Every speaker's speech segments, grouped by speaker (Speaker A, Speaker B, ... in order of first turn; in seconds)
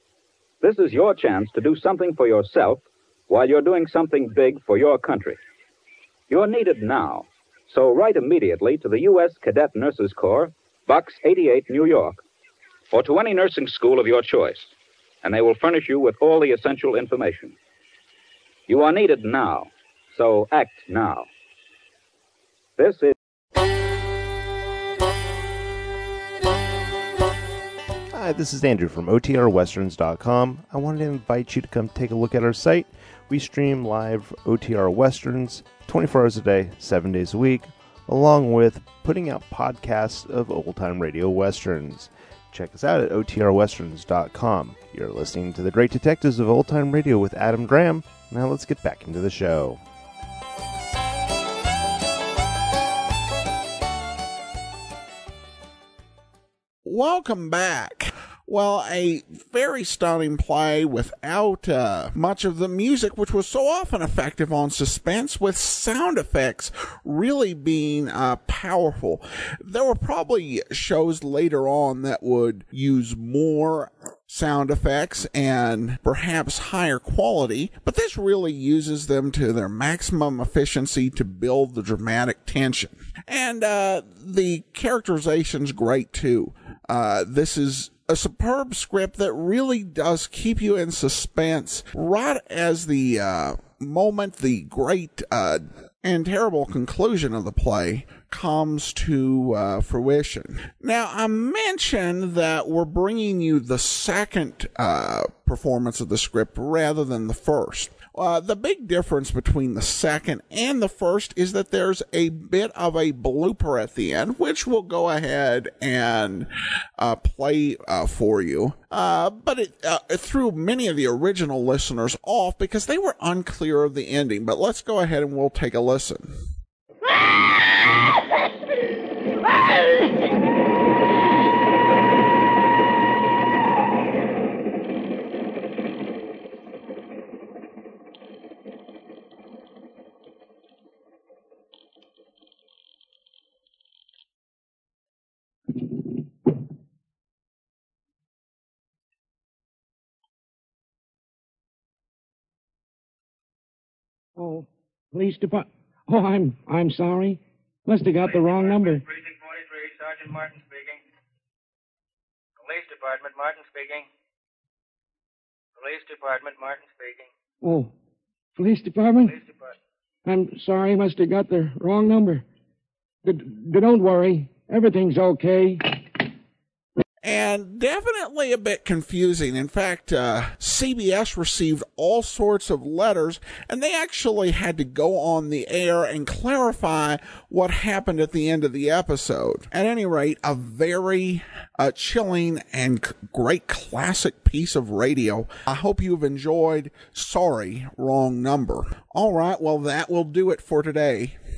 Speaker A: 0.6-5.4, 6.3-12.2, 12.9-17.6, 18.7-21.3, 22.8-23.1
Speaker B: 28.1-49.8
Speaker C: 56.8-126.4, 177.2-201.4
Speaker D: 154.3-159.0, 167.6-167.9, 168.6-169.3, 170.2-172.4, 173.2-176.0
Speaker E: 158.2-161.0, 162.6-164.1, 165.8-167.3, 169.2-169.8